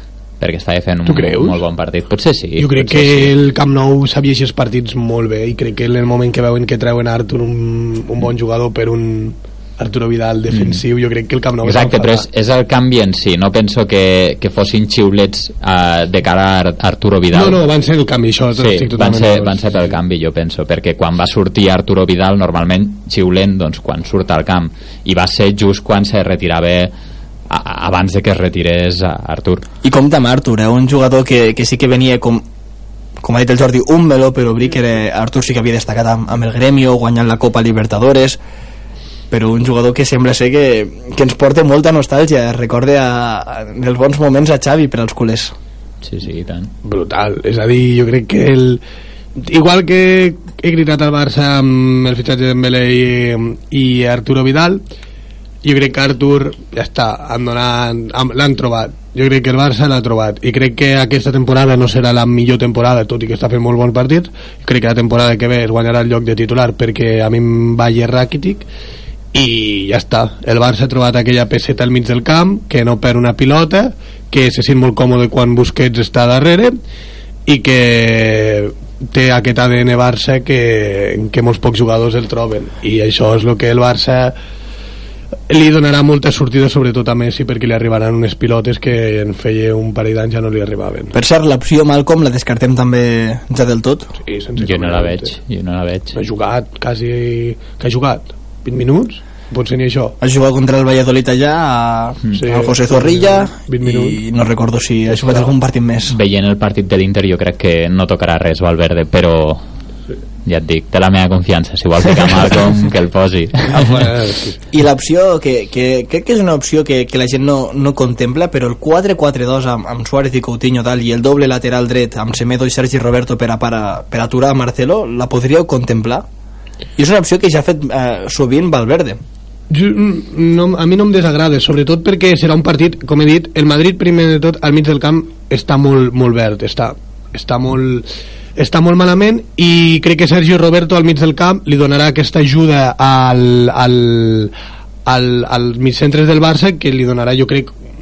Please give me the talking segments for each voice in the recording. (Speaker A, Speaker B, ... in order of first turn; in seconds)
Speaker A: 0.4-3.3, 10.5-10.8, 11.6-17.6, 18.6-26.9, 27.5-29.7, 46.0-46.7, 94.6-96.2, 106.1-109.6, 110.4-114.1
Speaker B: 1.1-1.6, 2.6-12.2, 17.3-19.6, 46.8-48.8, 49.4-54.8, 55.6-68.7, 69.3-76.7, 77.5-84.3, 85.5-91.1, 94.2-95.3, 96.1-100.2, 102.3-104.2, 105.1-105.5, 113.7-114.6, 129.7-144.5, 145.1-147.7
Speaker C: 29.8-32.4, 33.2-38.4, 39.3-45.5, 91.1-94.1, 100.2-106.2, 114.7-126.2, 127.0-129.2